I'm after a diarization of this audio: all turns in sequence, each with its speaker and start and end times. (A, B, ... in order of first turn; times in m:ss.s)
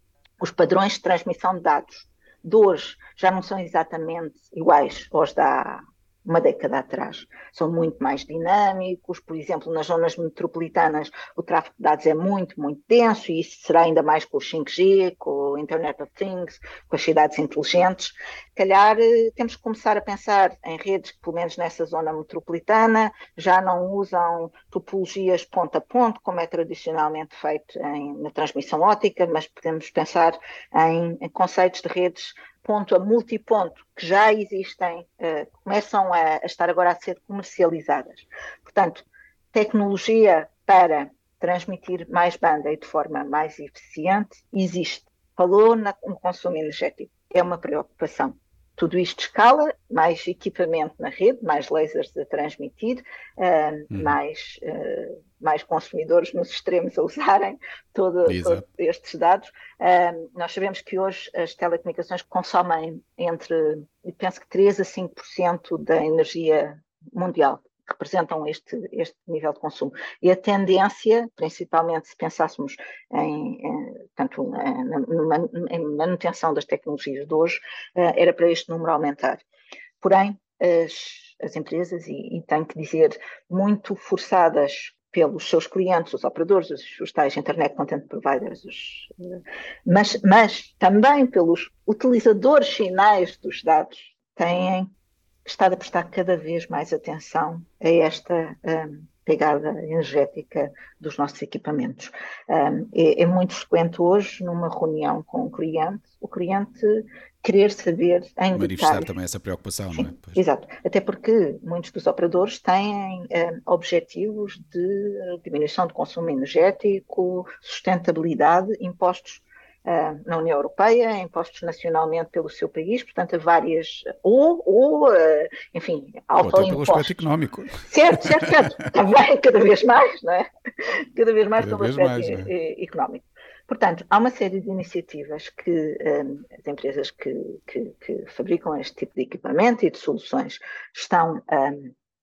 0:00.4-1:19.4 A
0:53.9-0:54.2 B
0:58.2-0:58.6 B
1:20.0-1:34.9 A
1:35.5-1:49.1 A
1:48.5-1:50.4 B
1:49.9-2:07.3 A
2:06.4-2:08.9 B
2:07.8-2:21.9 A
2:11.6-2:12.5 B